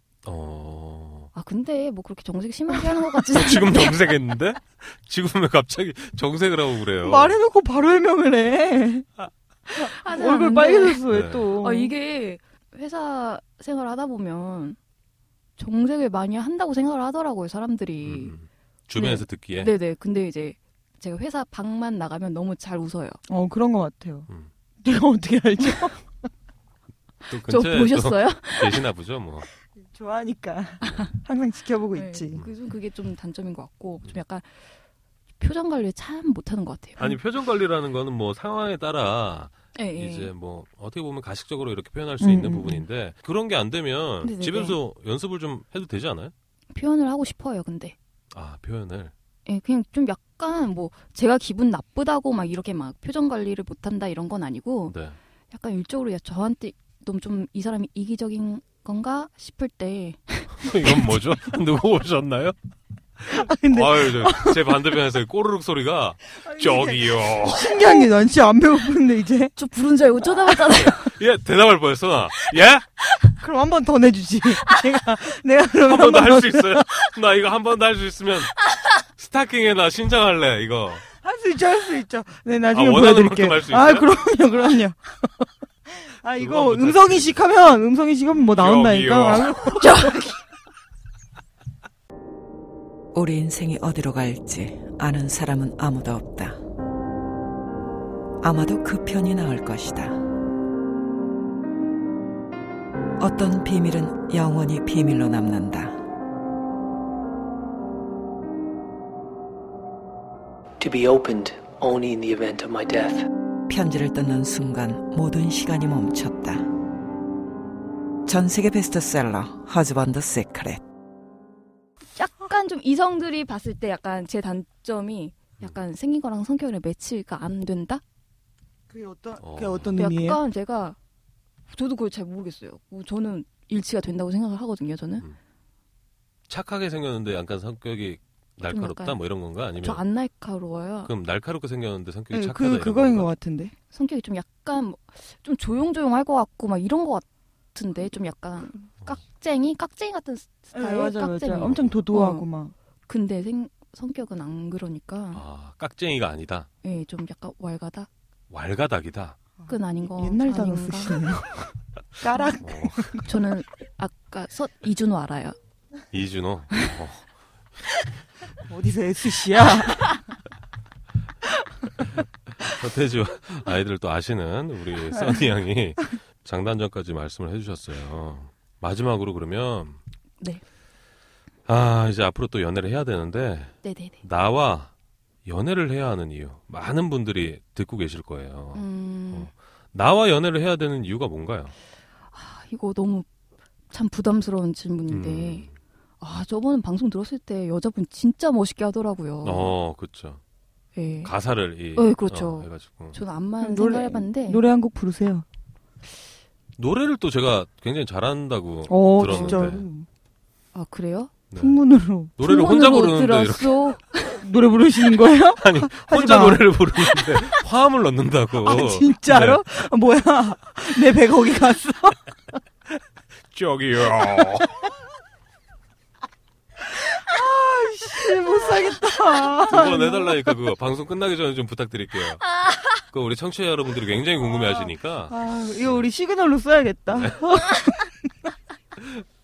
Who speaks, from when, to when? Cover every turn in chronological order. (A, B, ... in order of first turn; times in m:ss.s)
0:00.2-0:01.3 A
0:01.3-0:04.0 B
0:03.3-0:07.4 A
0:07.0-0:09.1 C
0:09.7-0:11.9 C
0:09.7-0:14.8 B
0:11.1-0:11.5 A
0:15.6-0:18.4 B
0:18.0-0:19.7 A
0:19.0-0:23.2 B
0:23.3-0:24.3 C
0:24.8-0:26.1 C
0:27.3-0:29.5 A
0:27.5-0:28.8 B
0:29.8-0:32.4 C
0:31.9-0:34.5 B
0:35.4-0:37.2 B
0:37.0-0:46.3 A
0:39.8-0:40.3 B
0:42.2-0:42.8 C
0:44.2-0:44.8 B
0:46.7-0:48.0 B
0:48.3-0:49.1 A
0:49.5-0:55.0 B
0:54.9-0:55.2 A
0:55.5-1:01.1 B
1:00.6-1:02.6 A
1:03.2-1:07.8 A
1:03.3-1:04.8 C
1:06.4-1:09.5 C
1:07.8-1:08.1 B
1:09.6-1:11.2 B
1:10.8-1:12.8 A
1:13.4-1:16.9 C
1:15.8-1:18.6 A
1:19.2-1:21.0 A
1:21.2-1:30.2 C
1:22.7-1:24.1 A
1:26.4-1:27.4 A
1:28.5-1:29.8 A
1:29.8-1:30.3 B
1:33.1-1:36.6 D
1:38.4-1:40.2 D
1:43.2-1:46.0 D
1:50.8-1:53.3 E
1:53.7-1:56.7 D
1:58.3-2:00.8 D
2:02.2-2:08.0 B
2:08.9-2:10.4 C
2:09.4-2:10.0 A
2:10.0-2:11.0 B
2:11.7-2:15.2 B
2:16.5-2:20.0 A
2:18.7-2:19.2 B
2:19.8-2:21.1 B
2:21.0-2:23.3 A
2:22.3-2:23.7 C
2:23.9-2:32.5 B
2:30.7-2:32.7 C
2:31.6-2:31.9 A
2:33.1-2:35.4 B
2:35.3-2:36.7 A
2:36.8-2:38.1 B
2:38.5-2:39.4 A
2:39.6-2:43.2 C
2:39.7-2:41.3 B
2:42.6-2:43.2 A
2:43.2-2:45.6 B
2:46.1-2:47.2 A
2:48.7-2:50.1 C
2:52.6-3:00.0 A
3:01.7-3:04.9 A
3:03.8-3:04.2 B
3:05.4-3:11.8 A
3:08.8-3:09.5 B
3:12.3-3:13.3 B
3:13.9-3:15.7 B
3:15.1-3:15.8 A
3:16.2-3:19.7 B
3:19.4-3:20.4 A
3:21.0-3:21.3 B
3:21.2-3:23.2 A
3:21.9-3:24.6 B
3:23.6-3:25.4 C
3:26.8-3:29.8 A
3:28.9-3:30.1 C
3:29.3-3:29.6 B
3:30.7-3:31.4 B
3:31.5-3:31.8 A
3:31.6-3:32.4 C
3:32.4-3:33.8 A
3:32.4-3:34.4 B
3:34.4-3:37.3 C
3:35.6-3:39.6 A
3:38.6-3:42.2 C
3:43.5-3:44.8 A
3:47.0-3:50.5 C
3:49.7-3:52.4 A
3:52.6-3:52.8 B
3:53.1-3:56.0 A
3:55.3-3:58.1 C